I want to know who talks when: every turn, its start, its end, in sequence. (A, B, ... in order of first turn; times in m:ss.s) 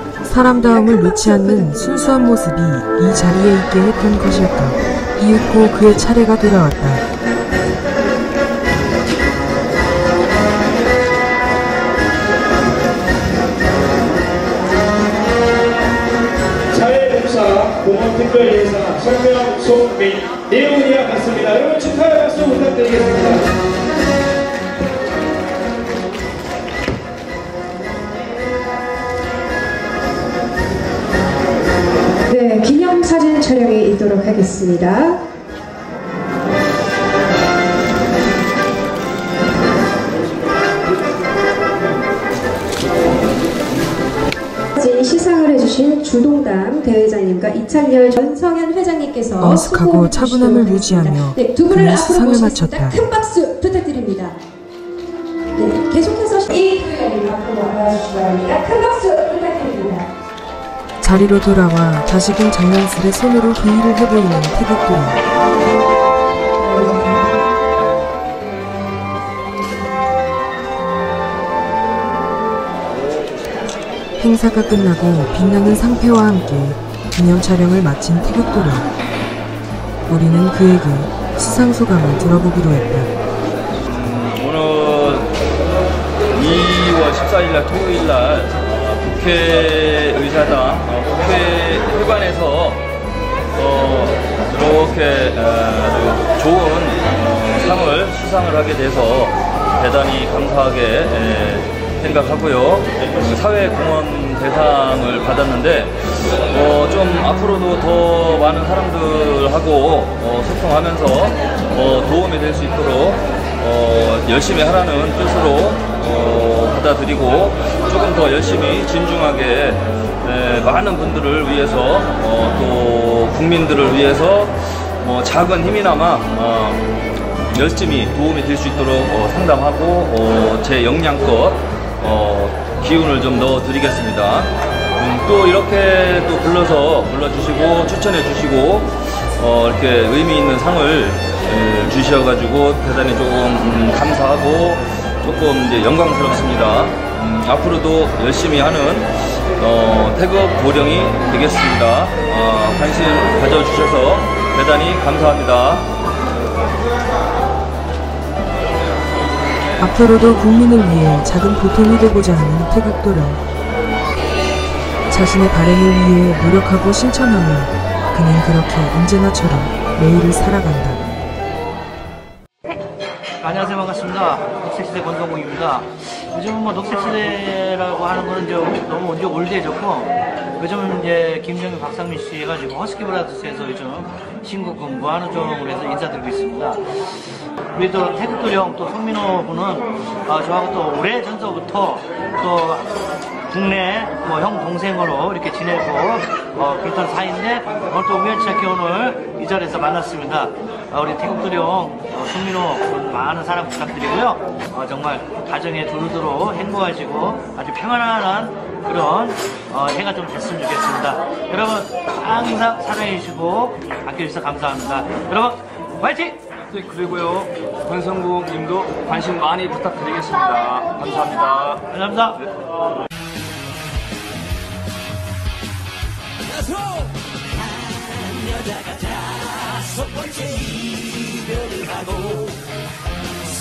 0:00.2-0:07.0 A
0:00.6-0:02.1 B
0:16.7-0:23.4 C
0:32.3-0:35.2 B
0:44.8-0:54.4 B
0:49.4-0:53.0 A
0:55.5-1:00.1 B
1:01.0-1:05.2 A
1:06.6-1:07.2 B
1:14.2-1:18.9 A
1:20.1-1:23.1 A
1:23.8-1:25.3 D
1:26.3-1:32.8 D
1:33.5-2:06.8 D
2:07.5-2:35.9 D
2:39.8-2:43.4 A
2:45.1-2:51.0 A
2:53.4-3:06.9 E
3:07.7-3:36.5 E
3:36.7-3:37.5 F
3:38.2-3:41.1 F
3:41.8-3:42.4 E